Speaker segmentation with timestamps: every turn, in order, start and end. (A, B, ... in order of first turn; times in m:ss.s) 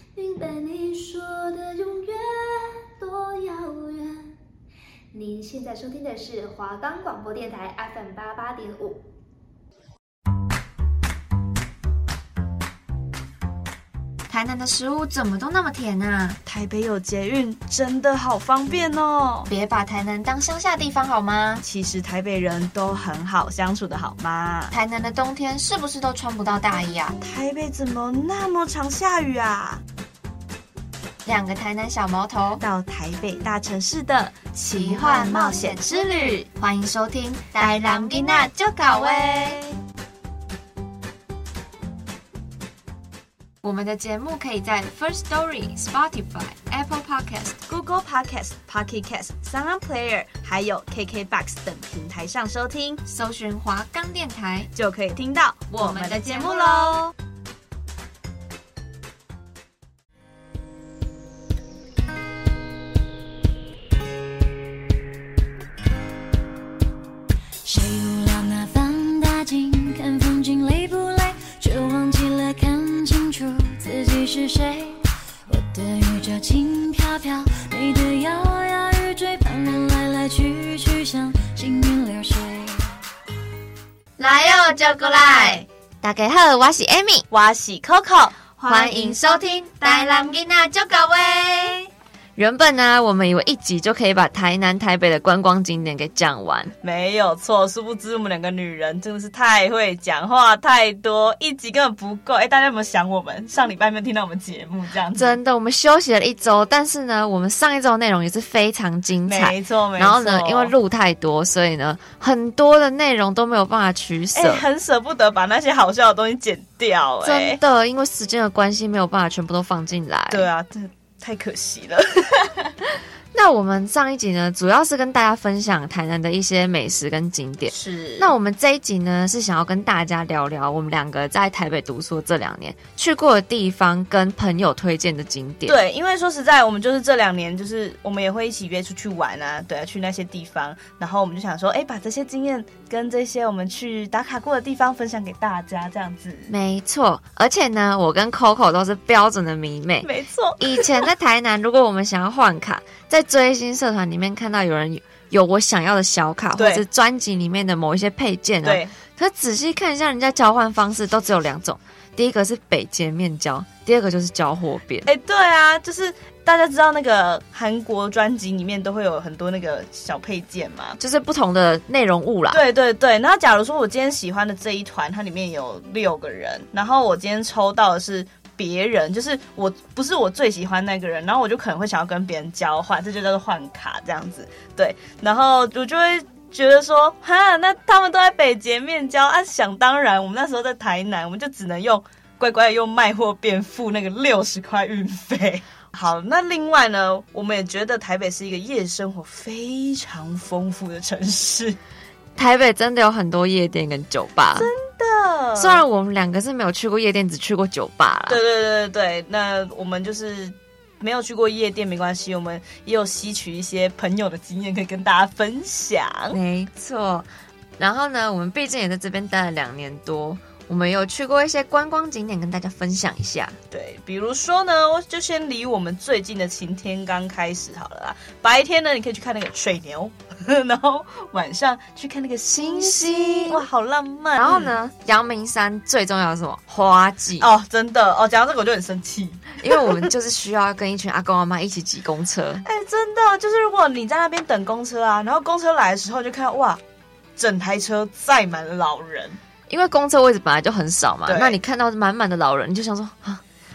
0:00.2-0:04.3 A
0:05.1-0:09.0 A
0:14.3-0:16.4 B
0:16.5-0:19.5 C
0:19.5-0:21.6 B
0:21.6-0:24.7 C
0:24.7-0:27.2 B
0:27.2-0:29.8 C
0:31.2-0:32.6 B
0:32.6-0:36.5 C
0:34.8-0:39.6 B
0:37.6-0:39.8 C
0:43.6-0:47.6 B
0:47.7-0:53.0 C
0:53.1-0:54.7 B
0:54.7-0:57.1 C
0:55.7-0:57.0 B
1:07.6-1:22.9 D
1:24.2-1:27.3 B
1:25.1-1:25.6 C
1:27.3-1:30.5 C
1:28.7-1:31.8 B
1:32.4-1:36.7 B
1:36.8-1:45.4 C
1:45.2-1:54.6 B
1:49.3-1:50.7 C
1:54.4-1:57.6 C
1:57.2-2:00.5 B
2:00.3-2:02.8 C
2:03.3-2:15.8 B
2:07.7-2:08.3 C
2:15.7-2:26.5 C
2:26.5-2:45.1 B
2:30.0-2:31.0 C
2:36.6-2:36.8 C
2:38.6-2:38.9 C
2:45.0-2:51.0 C
2:51.0-2:52.6 B
2:52.5-3:21.8 C
3:22.4-3:24.7 B
3:24.6-3:25.8 C
3:25.6-3:28.4 B
3:28.3-3:36.4 C
3:36.3-3:37.3 B
3:37.8-3:43.6 B
3:43.7-3:54.7 C
3:52.5-3:53.6 B
3:54.4-3:57.5 B
3:57.4-4:00.1 C
3:59.6-4:02.6 B
4:02.6-4:06.8 C
4:07.4-4:09.4 C
4:09.7-4:13.4 B
4:11.3-4:11.6 C